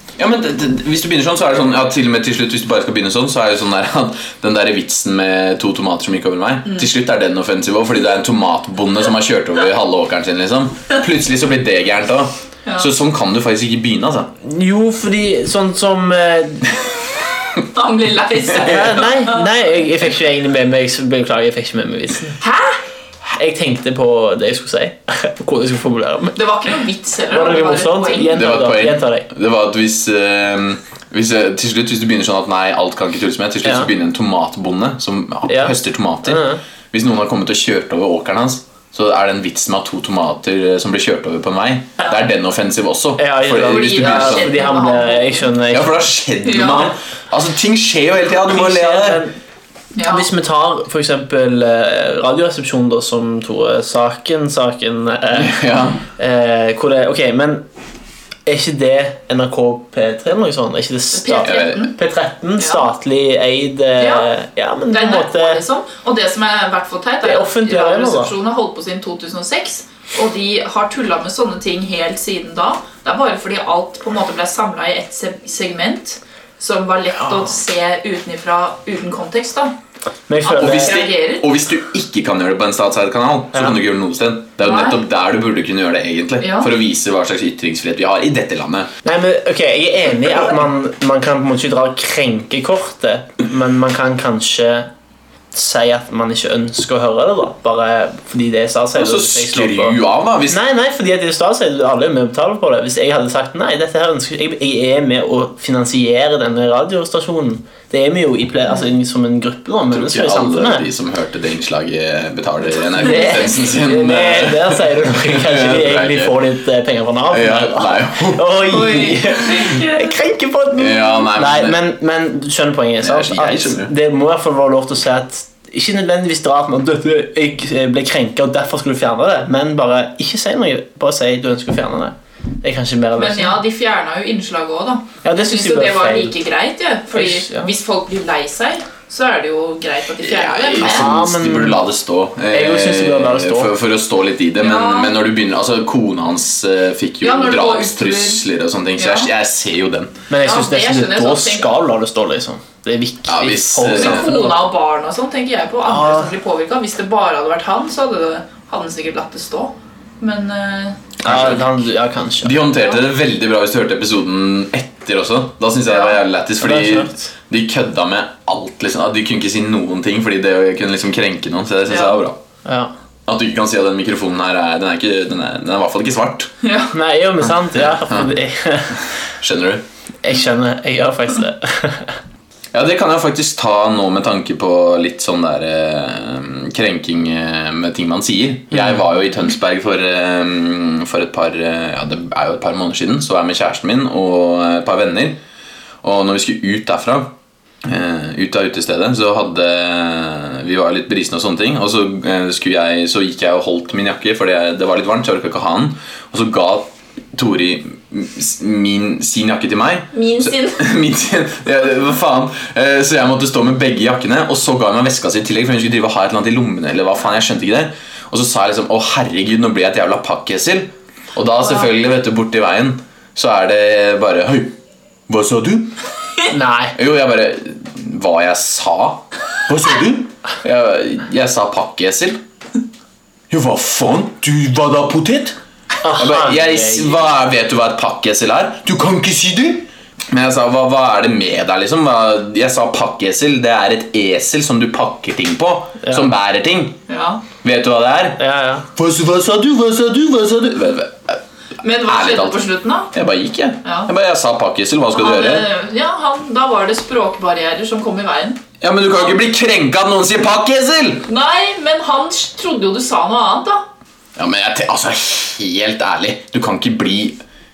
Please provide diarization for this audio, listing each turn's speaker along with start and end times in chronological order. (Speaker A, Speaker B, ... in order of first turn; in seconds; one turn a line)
Speaker A: 0.2-14.3
Speaker B: 12.7-12.9
Speaker C: 14.4-16.7
Speaker B: 17.6-19.5
Speaker C: 18.6-22.4
Speaker B: 22.4-22.8
Speaker C: 23.3-26.4
Speaker B: 26.4-28.5
Speaker C: 27.3-29.3
Speaker A: 28.3-44.5
Speaker C: 33.6-33.9
Speaker C: 35.5-36.6
Speaker C: 43.2-46.0
Speaker B: 43.5-45.5
Speaker A: 45.7-49.2
Speaker B: 46.4-46.9
Speaker C: 48.4-49.4
Speaker B: 49.9-50.3
Speaker C: 50.0-55.5
Speaker A: 55.3-56.0
Speaker C: 56.2-57.6
Speaker C: 58.4-65.6
Speaker B: 61.1-61.9
Speaker A: 61.4-61.8
Speaker B: 62.6-62.9
Speaker B: 64.0-64.3
Speaker B: 64.9-79.7
Speaker C: 67.2-68.3
Speaker C: 80.3-81.0
Speaker B: 80.4-81.5
Speaker A: 80.5-88.9
Speaker B: 84.6-85.0
Speaker B: 86.4-86.7
Speaker C: 89.0-94.9
Speaker C: 95.5-110.9
Speaker A: 98.9-100.6
Speaker A: 109.9-116.4
Speaker C: 113.0-133.6
Speaker B: 113.0-113.6
Speaker A: 117.3-118.5
Speaker B: 118.7-120.2
Speaker A: 120.8-121.8
Speaker A: 123.0-123.9
Speaker B: 133.2-141.2
Speaker C: 135.2-136.3
Speaker C: 137.1-137.7
Speaker A: 140.2-150.2
Speaker C: 140.8-141.8
Speaker C: 142.5-143.7
Speaker B: 144.6-145.2
Speaker B: 147.2-148.4
Speaker B: 149.0-149.3
Speaker C: 150.3-154.6
Speaker B: 150.4-151.8
Speaker A: 153.2-154.3
Speaker B: 153.8-161.0
Speaker C: 155.8-156.3
Speaker C: 161.2-162.6
Speaker A: 161.2-161.7
Speaker A: 162.4-172.4
Speaker B: 165.9-166.2
Speaker C: 166.6-167.2
Speaker B: 171.9-172.2
Speaker C: 172.6-172.9
Speaker A: 173.3-176.5
Speaker B: 176.6-176.9
Speaker C: 176.9-179.0
Speaker A: 177.7-178.3
Speaker A: 179.0-179.8
Speaker C: 180.2-182.2
Speaker A: 182.7-195.4
Speaker C: 188.7-189.0
Speaker A: 196.0-197.3
Speaker A: 197.8-224.8
Speaker B: 210.1-210.8
Speaker B: 221.6-221.9
Speaker A: 225.3-225.9
Speaker C: 226.5-226.9
Speaker A: 226.9-232.4
Speaker A: 233.5-235.6
Speaker C: 236.0-237.2
Speaker A: 236.1-247.0
Speaker C: 246.0-246.3
Speaker B: 247.1-247.4
Speaker A: 247.6-248.4
Speaker C: 248.4-248.9
Speaker A: 248.9-251.4
Speaker B: 251.8-253.1
Speaker A: 252.0-252.6
Speaker A: 253.1-255.7
Speaker B: 253.8-254.1
Speaker B: 255.1-258.6
Speaker A: 258.8-261.3
Speaker B: 261.3-263.8
Speaker A: 264.4-267.4